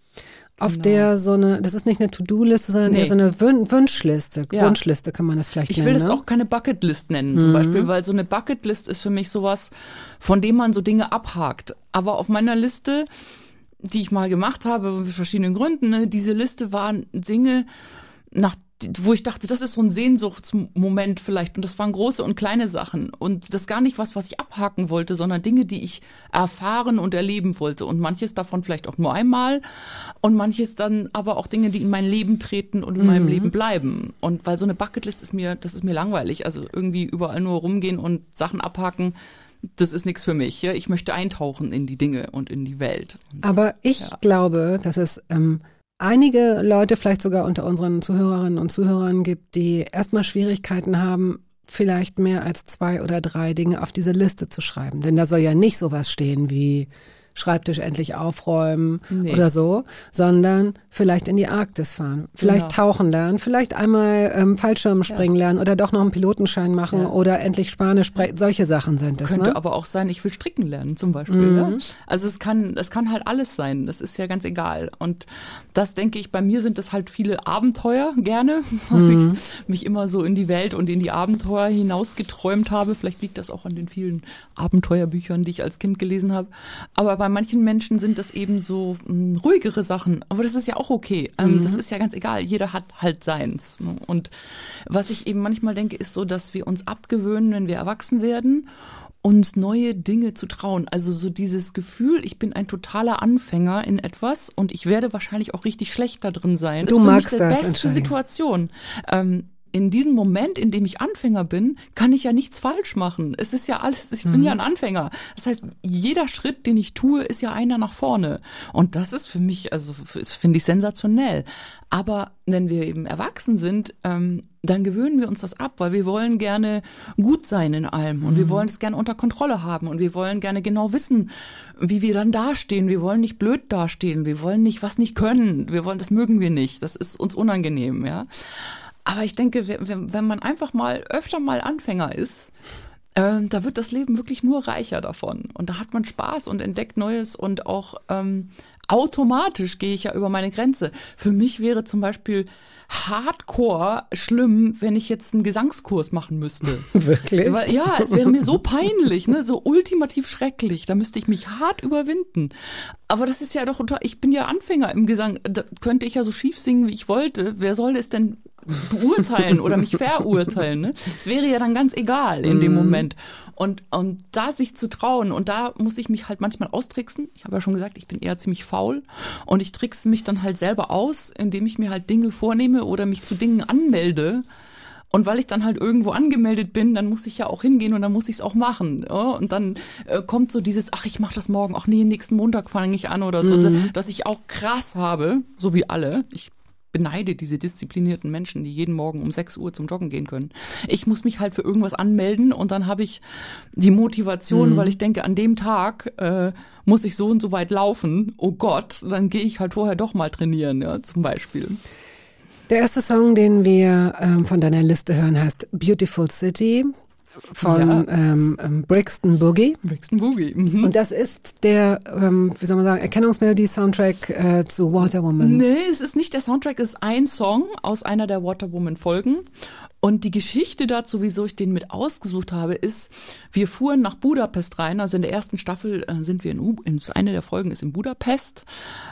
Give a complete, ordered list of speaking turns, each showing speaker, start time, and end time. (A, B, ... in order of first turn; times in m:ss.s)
0:00.6-0:06.2 A
0:00.7-0:01.1 B
0:02.9-0:03.2 B
0:04.5-0:04.8 B
0:05.7-0:13.1 B
0:07.3-0:07.9 A
0:13.8-0:17.7 B
0:18.3-0:29.6 B
0:30.2-0:39.2 B
0:33.0-0:33.5 A
0:39.7-0:44.2 B
0:43.4-1:09.6 A
0:59.1-0:59.5 B
1:02.4-1:02.8 B
1:09.2-1:34.3 B
1:11.3-1:11.8 A
1:18.9-1:19.4 A
1:31.4-1:31.8 A
1:34.9-1:38.7 B
1:39.2-2:22.5 B
1:46.8-1:48.1 A
1:54.3-1:54.6 A
2:08.2-2:08.6 A
2:23.2-2:42.5 B
2:36.9-2:38.5 A
2:43.1-3:04.4 B
2:52.4-2:53.1 A
3:05.1-3:23.2 B
3:13.4-3:13.9 A
3:23.7-3:31.8 B
3:24.5-3:25.0 A
3:32.7-3:36.9 A
3:37.5-3:39.8 A
3:37.6-3:38.0 B
3:39.8-3:40.9 B
3:40.8-3:45.6 A
3:45.4-3:49.5 B
3:50.0-3:58.7 B